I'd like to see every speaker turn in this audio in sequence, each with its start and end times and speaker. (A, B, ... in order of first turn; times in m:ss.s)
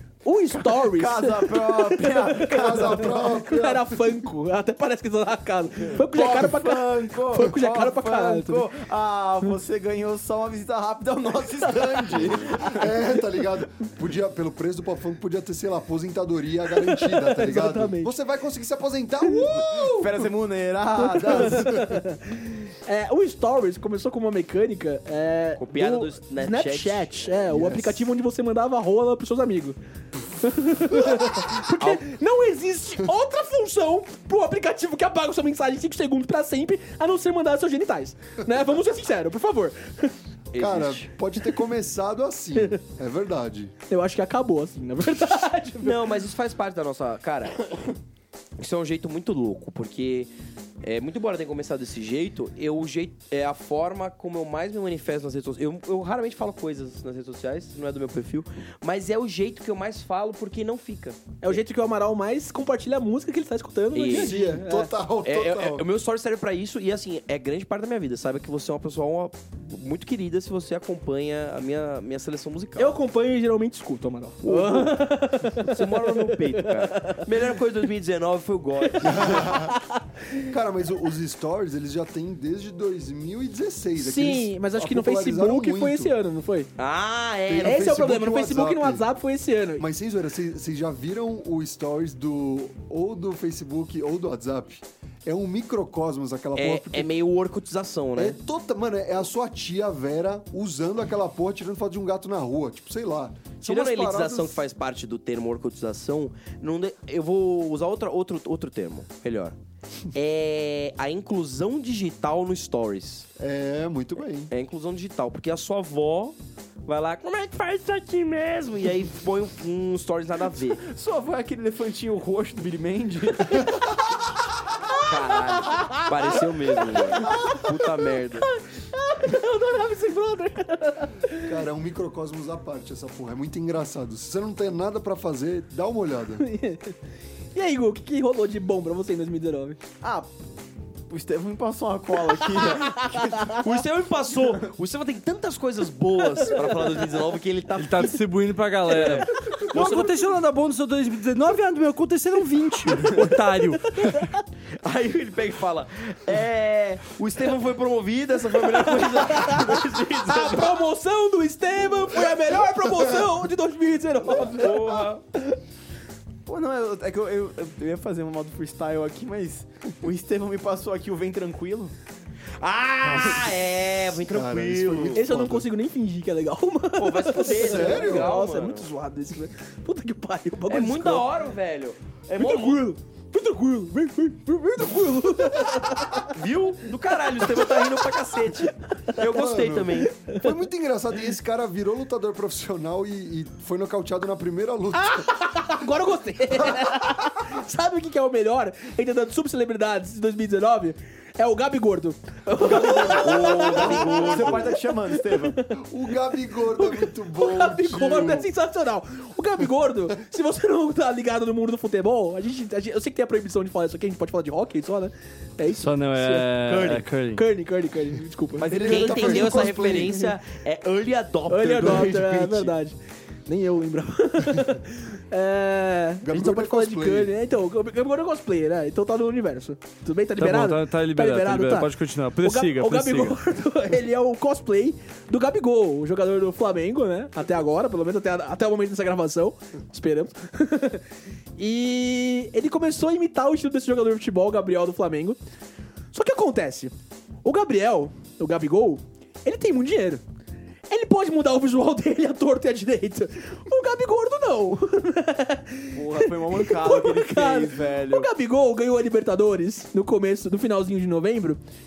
0:00.2-0:08.6 A
0:00.5-0:03.0 B
0:02.4-0:04.1 C
0:06.0-0:12.9 B
0:12.1-0:20.3 C
0:16.9-0:18.1 A
0:19.8-0:21.9 B
0:21.2-0:29.8 A
0:25.6-0:28.0 D
0:30.4-0:40.1 A
0:40.5-0:41.1 D
0:40.6-0:43.7 C
0:43.9-0:46.1 A
0:45.8-0:47.6 D
0:48.6-0:50.3 D
0:50.8-1:01.3 D
1:01.4-1:04.9 A
1:03.9-1:04.4 D
1:04.1-1:05.8 C
1:05.2-1:13.0 D
1:12.8-1:17.3 A
1:14.4-1:19.5 D
1:19.0-1:19.8 C
1:19.0-1:20.0 A
1:20.4-1:26.2 C
1:24.0-1:26.7 A
1:26.8-1:27.9 D
1:27.5-1:29.1 C
1:27.6-1:29.8 A
1:29.8-1:37.1 C
1:36.5-1:38.4 D
1:38.2-1:44.6 C
1:43.6-1:49.5 D
1:50.1-1:53.3 D
1:53.4-1:54.5 C
1:54.5-2:00.8 D
2:00.8-2:03.7 B
2:04.9-2:08.5 D
2:05.7-2:06.0 A
2:07.1-2:07.8 A
2:08.4-2:11.5 A
2:11.4-2:16.5 C
2:16.4-2:16.9 A
2:17.5-2:19.8 A
2:20.0-2:20.3 B
2:21.1-2:23.6 B
2:23.5-2:28.2 D
2:27.8-2:34.3 E
2:28.9-2:30.3 D
2:33.9-2:34.3 A
2:34.8-2:40.8 D
2:38.7-2:45.6 A
2:44.4-2:45.2 D
2:46.4-2:51.9 B
2:52.6-2:55.2 D
2:53.1-2:53.5 C
2:54.2-2:55.7 C
2:55.1-3:01.3 A
2:57.0-2:58.9 D
2:57.5-2:58.4 C
3:00.7-3:02.9 D
3:02.4-3:06.3 A
3:06.1-3:10.1 D
3:07.4-3:08.2 A
3:09.2-3:15.3 C
3:10.0-3:10.5 A
3:14.9-3:25.7 A
3:22.8-3:24.6 D
3:22.9-3:25.6 B
3:25.7-3:28.5 C
3:26.8-3:36.7 A
3:35.7-3:37.5 E
3:36.7-3:37.0 D
3:37.3-3:38.7 A
3:38.6-3:39.9 B
3:38.6-3:40.3 C
3:38.7-3:42.7 D
3:41.5-4:01.0 A
3:46.2-3:47.3 C
3:50.4-3:53.4 E
4:01.6-4:05.4 A
4:06.1-4:06.9 A
4:07.4-4:10.2 A
4:10.9-4:21.6 A
4:15.9-4:18.3 B